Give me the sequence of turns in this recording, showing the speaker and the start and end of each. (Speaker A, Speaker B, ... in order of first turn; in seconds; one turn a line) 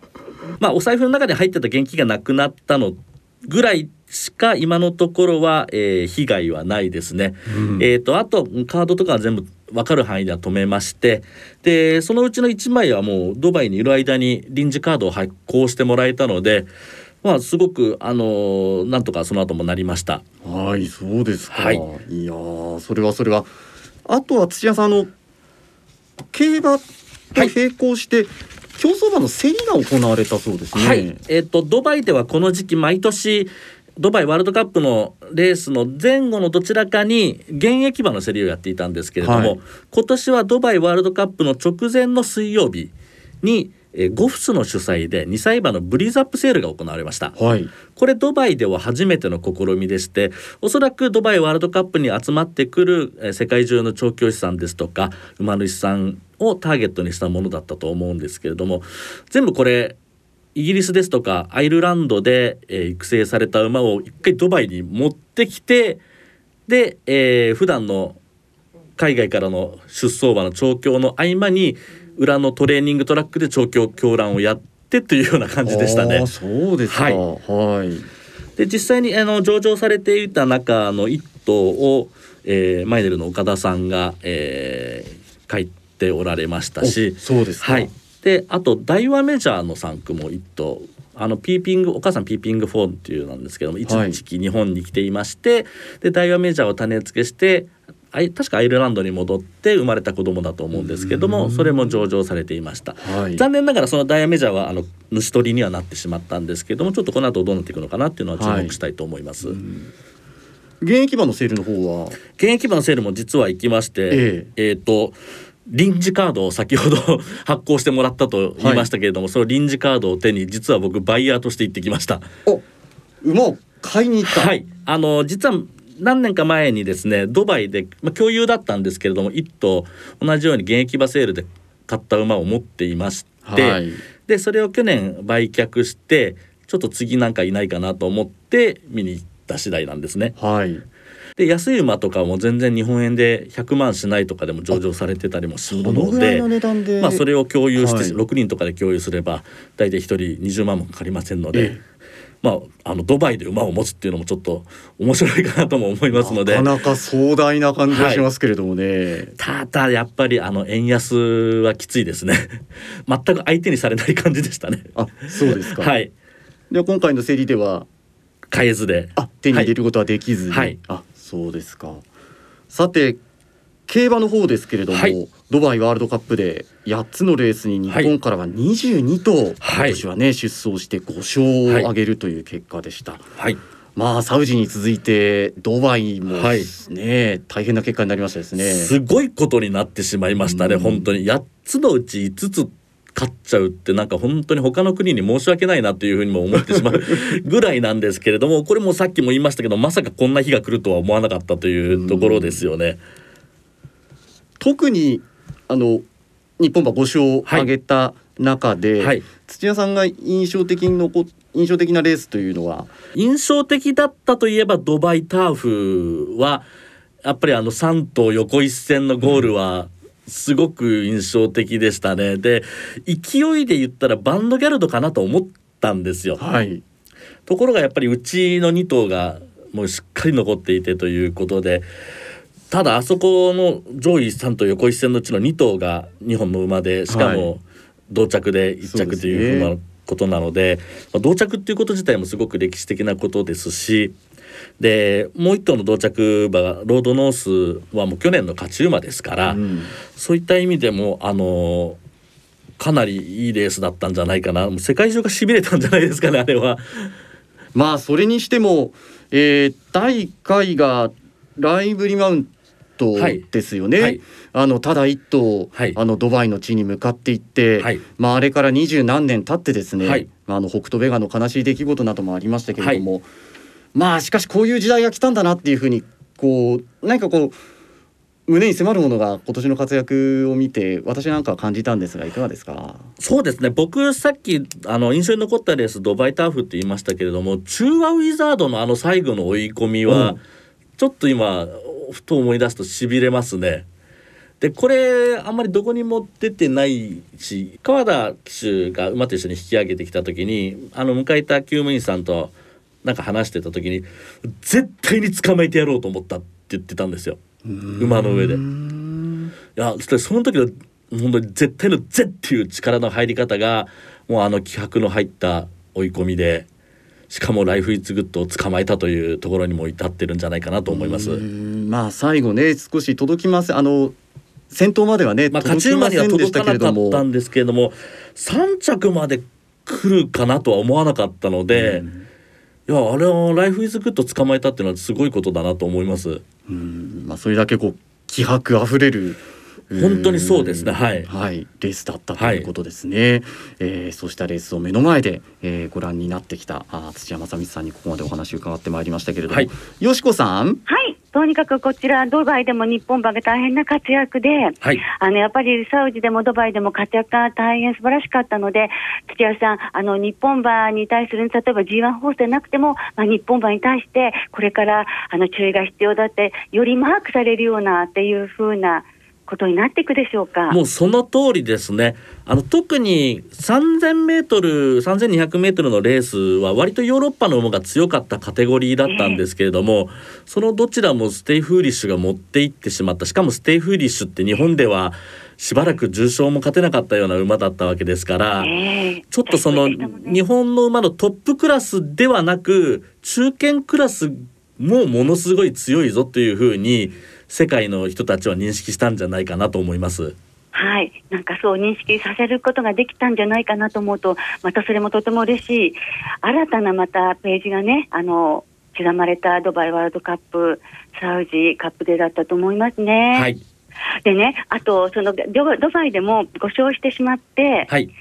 Speaker A: 0.6-16.7
Speaker B: 7.5-7.9
Speaker A: 17.2-20.2
Speaker B: 20.4-23.5
Speaker A: 21.5-21.8
Speaker B: 24.1-25.1
Speaker B: 26.3-31.2
Speaker A: 30.7-47.4
Speaker B: 39.2-39.6
Speaker B: 47.4-47.7
Speaker A: 47.9-60.0
Speaker A: 60.5-66.0
Speaker A: 66.7-68.2
Speaker A: 69.0-76.3
Speaker B: 75.6-78.1
Speaker A: 76.9-77.2
Speaker A: 78.6-109.6
Speaker B: 86.8-87.9
Speaker B: 93.8-94.2
Speaker B: 100.7-102.0
Speaker B: 103.0-103.5
Speaker B: 108.4-108.8
Speaker B: 109.4-109.9
Speaker B: 110.8-112.2
Speaker A: 112.3-122.3
Speaker B: 114.1-114.5
Speaker B: 118.6-118.9
Speaker B: 123.2-124.5
Speaker A: 124.2-140.3
Speaker B: 133.4-134.0
Speaker B: 140.4-140.8
Speaker A: 141.4-146.5
Speaker B: 145.7-147.2
Speaker A: 147.0-151.8
Speaker B: 147.8-148.2
Speaker B: 151.5-151.8
Speaker A: 152.4-156.7
Speaker B: 156.1-159.4
Speaker A: 157.9-158.3
Speaker A: 159.4-166.1
Speaker B: 165.0-165.9
Speaker B: 166.7-167.9
Speaker A: 168.5-169.7
Speaker B: 169.2-172.0
Speaker A: 170.5-170.8
Speaker B: 172.7-173.2
Speaker B: 173.9-183.2
Speaker A: 179.6-180.0
Speaker B: 184.0-188.9
Speaker A: 186.3-186.7
Speaker A: 188.6-203.0
Speaker B: 190.5-191.1
Speaker B: 196.6-197.2
Speaker B: 201.9-202.7
Speaker B: 204.6-206.1
Speaker B: 206.6-212.9
Speaker A: 213.1-216.7
Speaker A: 217.2-226.4
Speaker B: 226.4-226.8
Speaker A: 227.5-231.9
Speaker A: 232.7-244.2
Speaker B: 237.1-237.5
Speaker B: 238.9-239.7
Speaker A: 244.8-249.6
Speaker B: 249.4-249.9
Speaker A: 250.1-252.0
Speaker A: 252.8-257.1
Speaker B: 257.7-273.3
Speaker A: 270.0-270.3
Speaker B: 273.9-277.6
Speaker B: 278.5-283.1
Speaker A: 283.2-290.4
Speaker B: 290.1-290.4
Speaker A: 291.0-293.9
Speaker A: 294.6-302.5
Speaker A: 303.0-304.1
Speaker A: 304.6-307.4
Speaker B: 307.7-309.5
Speaker A: 308.0-308.6
Speaker A: 309.8-316.7
Speaker A: 317.3-321.4
Speaker B: 320.9-324.2
Speaker B: 324.7-327.2
Speaker A: 325.5-332.1
Speaker B: 331.7-332.2
Speaker A: 332.9-336.4
Speaker B: 336.7-350.8
Speaker A: 340.0-341.3
Speaker A: 342.4-342.7
Speaker C: 350.9-370.8
Speaker A: 370.7-388.7
Speaker C: 379.1-379.4
Speaker C: 388.6-390.4
Speaker A: 389.3-400.4
Speaker C: 400.7-413.5
Speaker A: 413.3-413.6
Speaker C: 414.2-417.9